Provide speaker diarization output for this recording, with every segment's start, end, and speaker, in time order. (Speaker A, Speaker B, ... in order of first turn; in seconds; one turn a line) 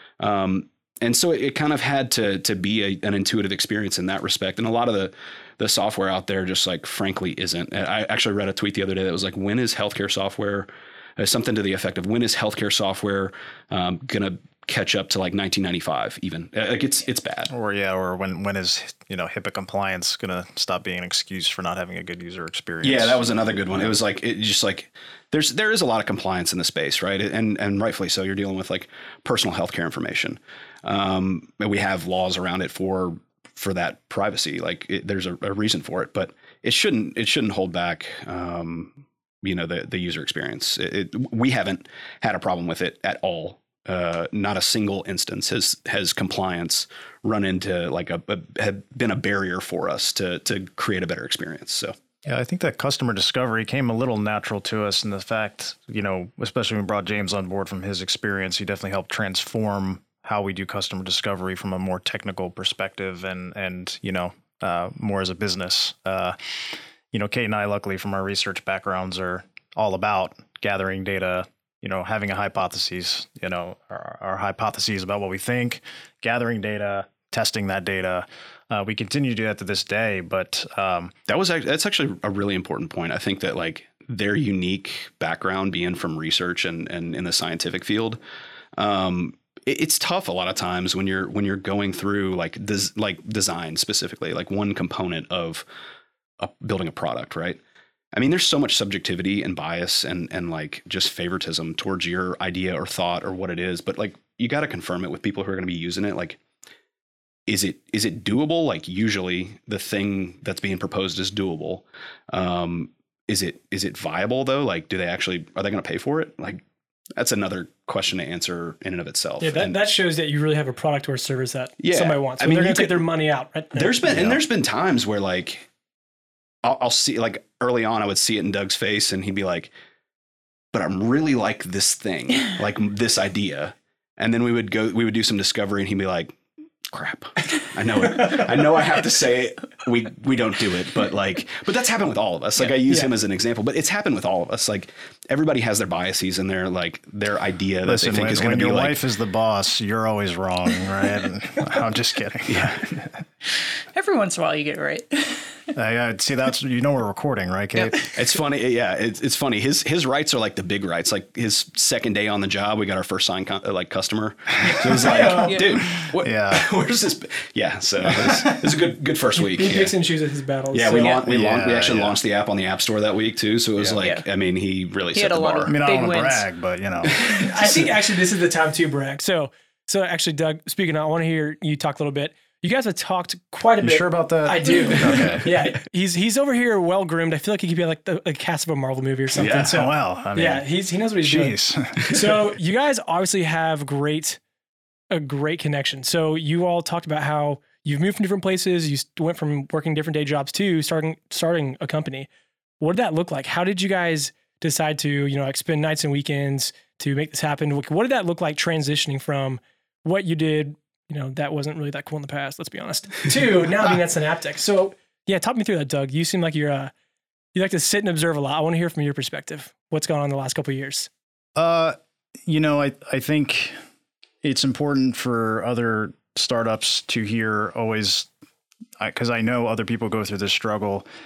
Speaker A: 0.2-17.5
Speaker B: 17.5-24.0
Speaker A: 22.8-51.9
Speaker B: 52.2-81.1
Speaker A: 81.3-88.2
Speaker A: 88.8-95.6
Speaker A: 96.4-97.6
Speaker A: 98.1-106.4
Speaker A: 107.5-116.6
Speaker A: 117.2-119.8
Speaker C: 119.4-124.0
Speaker A: 121.8-123.0
Speaker A: 123.7-125.7
Speaker B: 124.1-124.4
Speaker A: 126.6-129.7
Speaker A: 130.7-136.3
Speaker A: 136.9-149.0
Speaker B: 147.8-153.2
Speaker A: 152.5-152.8
Speaker D: 153.9-155.7
Speaker B: 155.7-158.0
Speaker D: 157.7-158.1
Speaker A: 158.1-169.9
Speaker C: 165.0-165.4
Speaker B: 165.0-165.5
Speaker D: 165.2-165.8
Speaker B: 166.2-166.7
Speaker B: 168.0-168.7
Speaker C: 169.3-171.2
Speaker A: 170.7-175.8
Speaker B: 171.2-172.2
Speaker D: 175.1-176.4
Speaker B: 175.7-177.3
Speaker A: 177.0-177.4
Speaker C: 177.3-194.4
Speaker B: 183.8-185.5
Speaker B: 189.3-190.6
Speaker B: 191.2-192.3
Speaker C: 195.1-202.3
Speaker C: 202.8-216.9
Speaker C: 217.5-221.1
Speaker B: 221.6-221.9
Speaker B: 222.5-223.7
Speaker B: 224.4-228.3
Speaker B: 229.0-231.0